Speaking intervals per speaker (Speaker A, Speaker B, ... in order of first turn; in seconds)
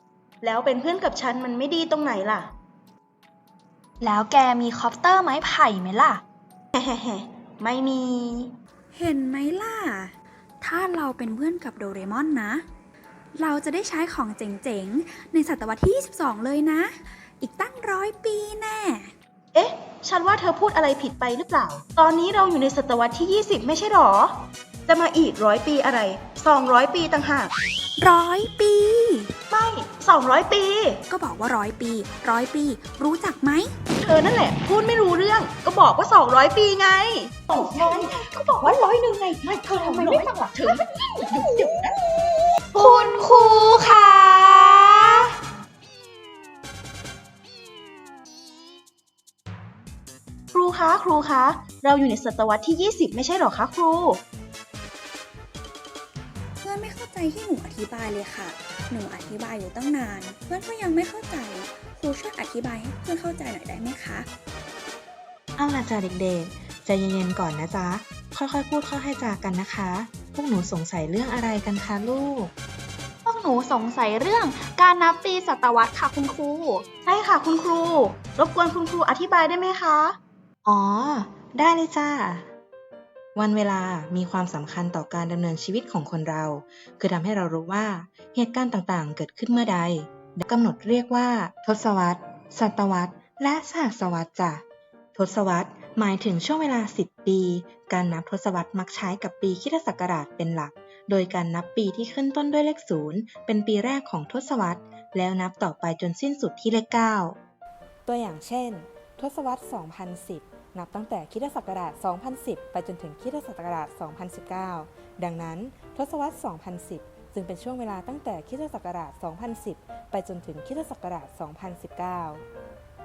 Speaker A: 0.4-2.5, 6.7-8.5, 19.5-27.5, 29.5-31.0, 34.0-38.9, 39.5-41.9, 50.5-54.2, 77.0-80.2
Speaker B: 4.0-6.2, 37.5-41.8, 42.7-45.3, 73.2-76.8
Speaker C: 8.9-12.6, 13.3-19.1, 28.0-29.3, 31.1-33.7, 56.6-64.3
Speaker D: 65.5-72.5, 81.1-82.4, 83.3-94.6, 95.1-107.4
Speaker E: 80.7-81.1, 108.0-122.4